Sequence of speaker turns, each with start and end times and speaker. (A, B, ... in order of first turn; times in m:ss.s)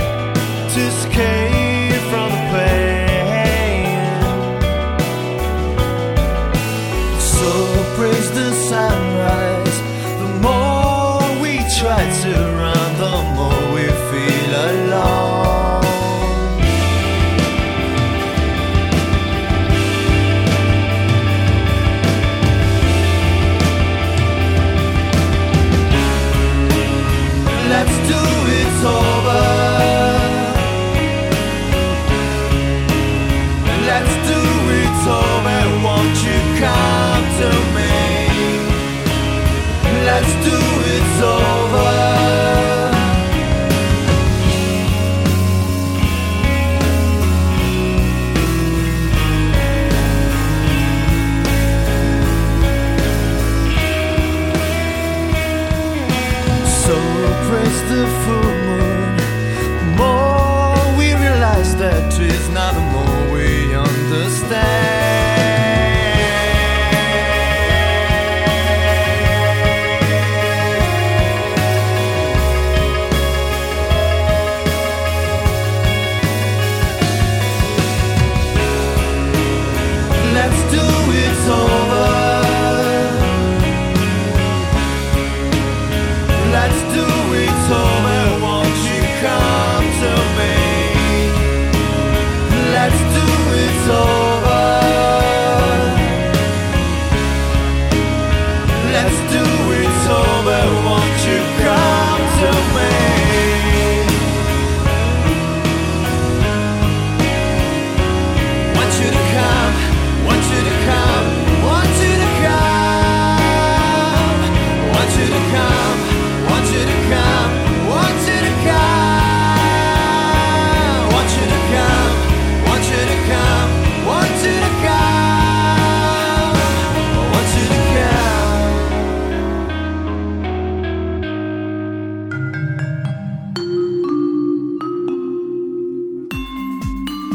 0:00.7-0:04.8 A
0:07.1-0:16.5 A
0:27.5-0:30.7 A
0:33.6-0:38.8 A
0:39.8-0:43.1 A
0:56.6-1:07.1 A
1:20.2-1:23.5 A
1:26.3-1:31.5 A
1:32.4-1:36.3 A
1:38.7-1:44.2 A
1:48.7-2:09.1 A